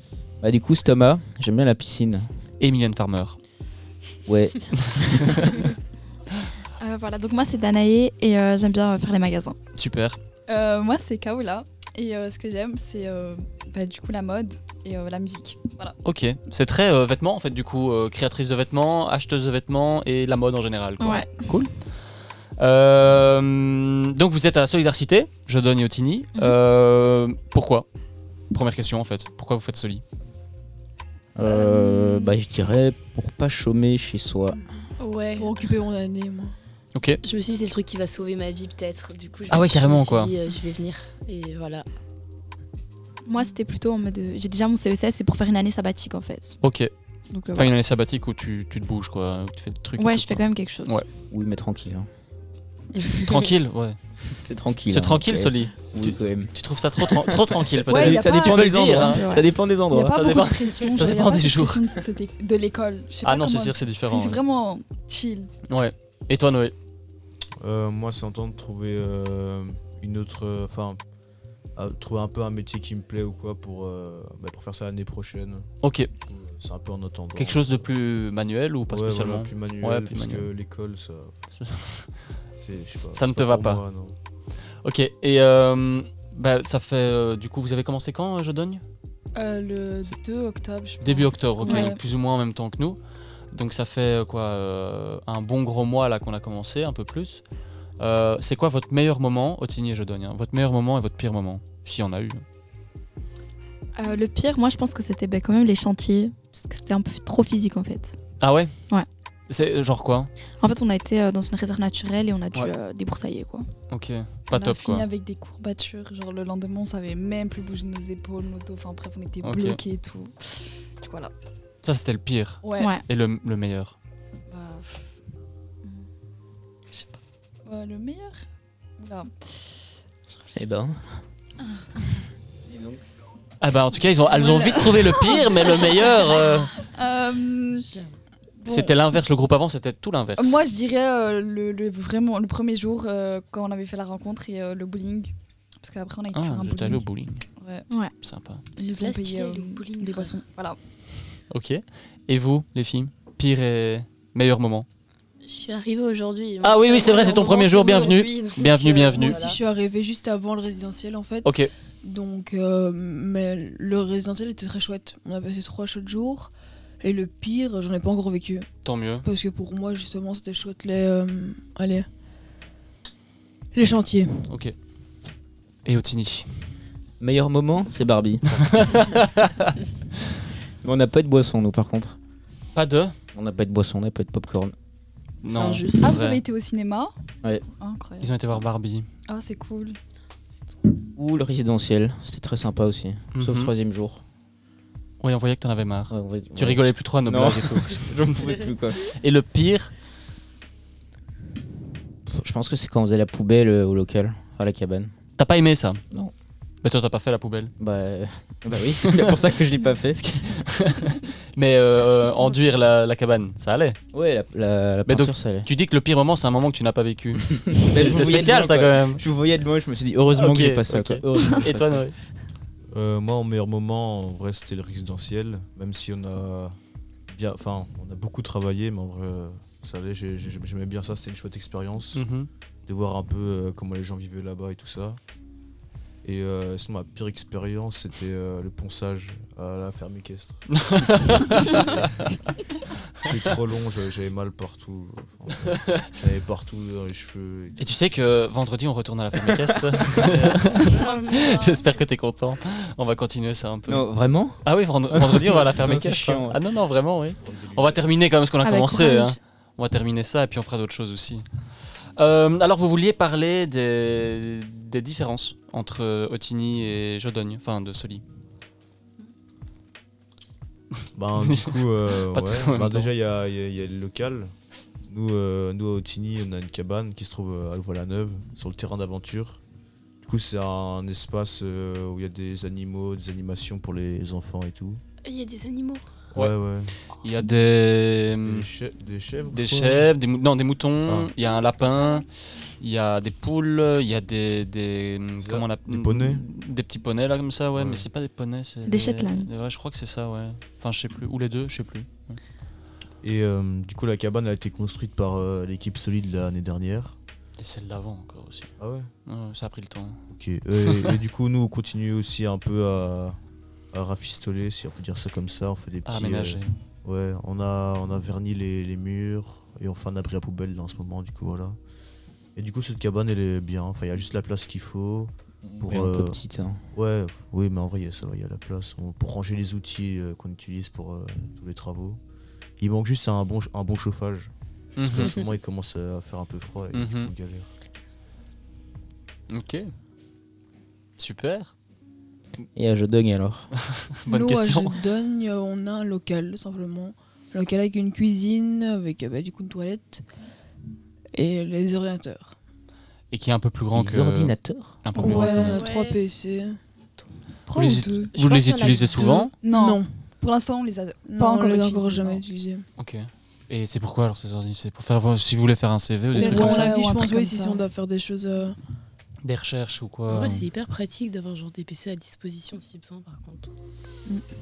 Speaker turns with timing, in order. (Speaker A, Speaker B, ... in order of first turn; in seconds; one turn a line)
Speaker A: 0.4-2.3
Speaker B: 2.6-3.4
Speaker A: 4.3-5.4
Speaker C: 6.8-9.6
Speaker B: 9.8-10.2
Speaker D: 10.5-16.0
Speaker B: 16.0-21.7
Speaker C: 21.0-21.3
Speaker B: 22.6-27.9
Speaker B: 28.5-30.0
Speaker A: 31.4-34.6
Speaker D: 31.5-32.3
Speaker E: 35.0-35.6
Speaker F: 35.4-36.5
Speaker B: 37.0-37.2
Speaker E: 37.2-41.9
Speaker B: 39.5-40.3
Speaker C: 43.3-46.6
Speaker B: 46.6-46.9
Speaker C: 47.3-47.7
Speaker B: 47.5-51.1
Speaker C: 50.0-51.0
Speaker A: 51.3-52.1
Speaker E: 53.0-53.5
Speaker B: 53.2-54.0
Speaker A: 54.4-60.2
Speaker B: 54.9-59.3
Speaker D: 57.9-65.5
Speaker C: 59.2-59.4
Speaker B: 60.0-61.9
Speaker B: 63.2-64.4
Speaker B: 65.7-66.8
Speaker G: 67.6-71.0
Speaker G: 71.8-75.7
Speaker B: 75.8-76.1
Speaker G: 76.3-77.9
Speaker B: 77.4-80.5
Speaker G: 78.9-81.3
Speaker B: 81.6-82.1
Speaker G: 82.6-84.2
Speaker B: 83.0-83.8
Speaker B: 84.8-88.8
Speaker D: 89.3-92.0
Speaker B: 91.0-93.0
Speaker B: 93.5-97.4
Speaker B: 98.0-102.4
Speaker C: 104.0-108.2
Speaker B: 108.4-108.7
Speaker B: 109.5-110.3
Speaker C: 110.6-113.7
Speaker B: 113.9-115.1
Speaker D: 114.5-121.3
Speaker B: 119.4-119.8
Speaker B: 121.8-124.0
Speaker D: 122.6-123.0
Speaker C: 122.8-123.0
Speaker D: 124.5-125.1
Speaker D: 126.9-128.4
Speaker D: 129.0-129.3
Speaker A: 130.6-131.2
Speaker A: 132.7-133.0
Speaker B: 133.6-136.7
Speaker D: 134.3-136.1
Speaker D: 136.8-137.9
Speaker D: 138.6-138.9
Speaker B: 138.7-140.6
Speaker D: 140.4-147.9
Speaker B: 146.3-147.4
Speaker B: 148.2-148.6
Speaker E: 148.8-150.4
Speaker D: 148.8-150.8
Speaker B: 151.5-154.9
Speaker E: 155.4-159.6
Speaker B: 156.6-159.4
Speaker F: 159.2-168.7
Speaker B: 161.4-161.7
Speaker B: 168.8-169.3
Speaker F: 169.2-172.1
Speaker F: 173.7-174.5
Speaker B: 174.5-174.7
Speaker B: 175.9-176.7
Speaker A: 177.2-179.0
Speaker B: 178.6-179.7
Speaker A: 180.8-182.2
Speaker B: 182.8-183.2
Speaker A: 183.3-184.7
Speaker E: 185.4-186.2
Speaker B: 185.4-186.4
Speaker D: 186.0-187.1
Speaker D: 187.8-188.6
Speaker B: 188.2-189.1
Speaker D: 189.3-190.0
Speaker A: 191.2-194.2
Speaker B: 193.3-193.7
Speaker B: 195.2-198.5
Speaker A: 196.1-199.0
Speaker B: 199.0-199.9
Speaker A: 202.3-205.1
Speaker B: 205.4-206.0
Speaker B: 206.8-207.7
Speaker A: 207.8-210.3
Speaker B: 210.2-214.0
Speaker A: 214.1-215.7
Speaker B: 215.1-219.2
Speaker A: 217.7-222.1
Speaker B: 220.3-222.2
Speaker G: 222.9-226.8
Speaker G: 227.3-232.3
Speaker B: 232.1-232.5
Speaker G: 232.9-235.2
Speaker G: 236.2-242.3
Speaker B: 240.8-241.9
Speaker G: 243.2-247.9
Speaker B: 247.8-254.1
Speaker E: 250.9-251.9
Speaker A: 253.9-256.6
Speaker B: 254.6-261.4
Speaker G: 257.4-258.1
Speaker C: 258.6-259.4
Speaker B: 262.2-268.2
Speaker G: 271.1-274.5
Speaker B: 271.4-271.8
Speaker B: 272.3-273.1
Speaker G: 275.1-279.6
Speaker G: 280.2-285.0
Speaker E: 285.2-286.1
Speaker G: 286.3-287.0
Speaker B: 287.1-288.7
Speaker G: 288.4-290.1
Speaker B: 289.5-302.4
Speaker G: 291.1-291.3
Speaker E: 291.8-292.2
Speaker G: 295.4-296.5
Speaker G: 297.8-298.1
Speaker C: 298.9-299.5
Speaker G: 303.2-307.2
Speaker B: 307.6-308.7
Speaker G: 308.8-309.1
Speaker B: 309.3-310.2
Speaker G: 310.3-313.4
Speaker G: 313.9-321.8
Speaker B: 316.1-316.8
Speaker G: 322.6-326.4
Speaker A: 325.6-326.8
Speaker G: 326.9-332.2
Speaker G: 332.8-337.7
Speaker B: 335.0-335.3
Speaker B: 336.9-337.3
Speaker B: 339.5-339.9
Speaker B: 341.2-341.7
Speaker A: 342.7-343.7
Speaker B: 344.2-345.0
Speaker F: 344.3-350.2
Speaker F: 351.3-352.6
Speaker B: 353.3-355.8
Speaker A: 353.9-355.0
Speaker F: 355.1-356.8
Speaker E: 355.4-356.2
Speaker D: 357.7-358.3
Speaker B: 357.7-359.5
Speaker E: 358.3-359.5
Speaker F: 359.2-360.1
Speaker D: 359.5-362.4
Speaker F: 361.3-362.9
Speaker B: 363.0-366.9
Speaker F: 366.3-368.8
Speaker D: 366.3-367.8
Speaker B: 369.4-370.6
Speaker E: 370.3-373.7